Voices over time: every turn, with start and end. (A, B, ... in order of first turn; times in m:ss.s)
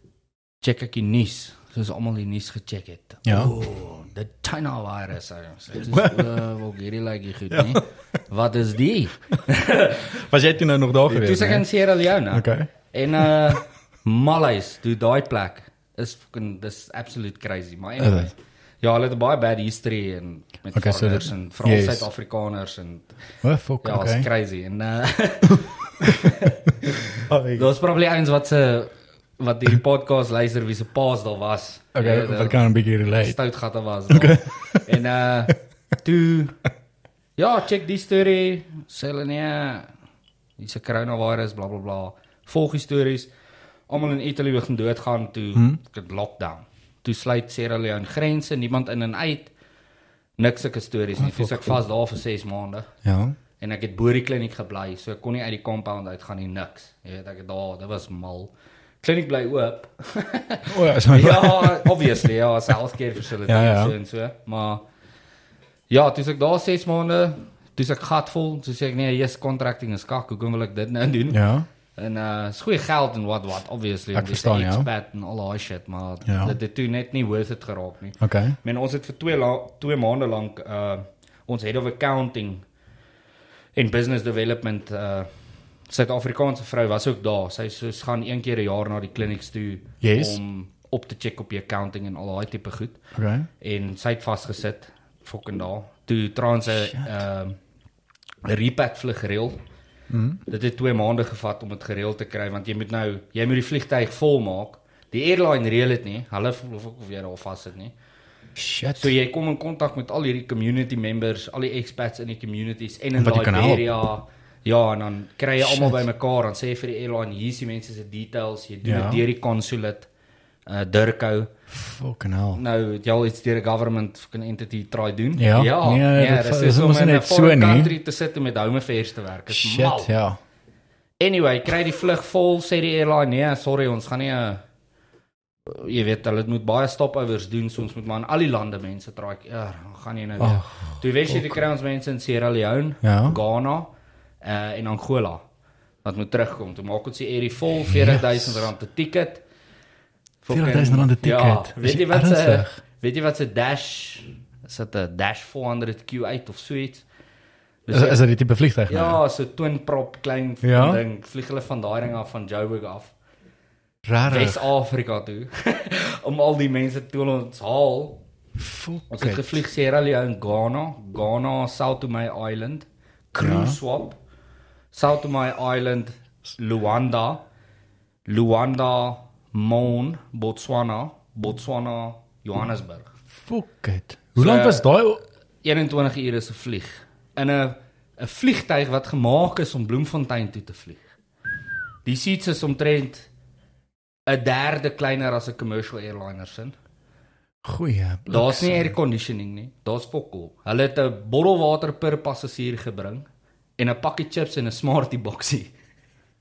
0:00.6-0:10.1 A
0:03.2-0:03.5 B
0:05.9-0:06.4 B
0:07.5-0:07.8 B
0:10.1-0:11.7 B
0:11.1-0:23.1 A
0:12.3-0:12.7 B
0:18.0-0:18.3 B
0:20.7-0:22.1 B
0:23.4-0:24.3 B
0:23.8-0:32.6 A
0:26.0-0:26.3 B
0:27.1-0:27.7 B
0:31.9-0:33.4 B
0:33.2-0:36.6 A
0:34.1-0:34.9 B
0:37.4-0:39.9 A
0:40.6-0:43.3 A
0:43.9-0:49.5 A
0:45.5-0:45.8 B
0:50.4-0:52.9 A
0:51.2-0:51.7 B
0:53.0-0:53.4 B
0:53.6-1:04.8 A
1:00.7-1:02.3 B
1:03.4-1:03.9 B
1:05.9-1:11.4 A
1:11.3-1:11.7 B
1:12.0-1:22.6 A
1:14.1-1:14.9 B
1:16.2-1:16.6 B
1:18.2-1:18.6 B
1:23.8-1:25.3 A
1:25.9-1:33.0 A
1:30.0-1:30.4 B
1:33.1-1:33.5 B
1:33.6-1:37.6 A
1:38.4-1:39.6 A
1:40.1-1:40.4 B
1:40.5-1:47.9 A
1:48.6-1:49.1 B
1:49.0-2:00.1 A
1:53.2-1:53.9 B
1:55.6-1:56.0 B
1:58.8-1:59.2 B
2:00.7-2:01.5 A
2:01.7-2:02.6 B
2:02.5-2:10.1 A
2:05.4-2:07.9 B
2:09.5-2:10.4 B
2:11.2-2:14.6 A
2:15.6-2:23.9 A
2:20.4-2:21.6 B
2:23.0-2:23.4 B
2:24.4-2:25.4 A
2:26.0-2:29.4 A
2:27.9-2:28.7 B
2:30.4-2:37.0 A
2:30.5-2:32.8 B
2:37.8-2:38.2 A
2:37.9-2:39.2 B
2:38.9-2:43.1 A
2:40.6-2:41.0 B
2:44.0-2:44.6 B
2:44.2-2:48.2 A
2:48.6-2:49.4 B
2:49.1-2:54.2 A
2:53.4-2:53.8 B
2:54.9-2:57.4 A
2:58.2-3:03.1 A
3:03.4-3:05.2 B
3:04.4-3:04.9 A
3:05.6-3:11.0 A
3:12.0-3:13.3 A
3:14.3-3:16.7 A
3:17.6-3:18.9 B
3:18.3-3:23.2 A
3:23.8-3:25.7 A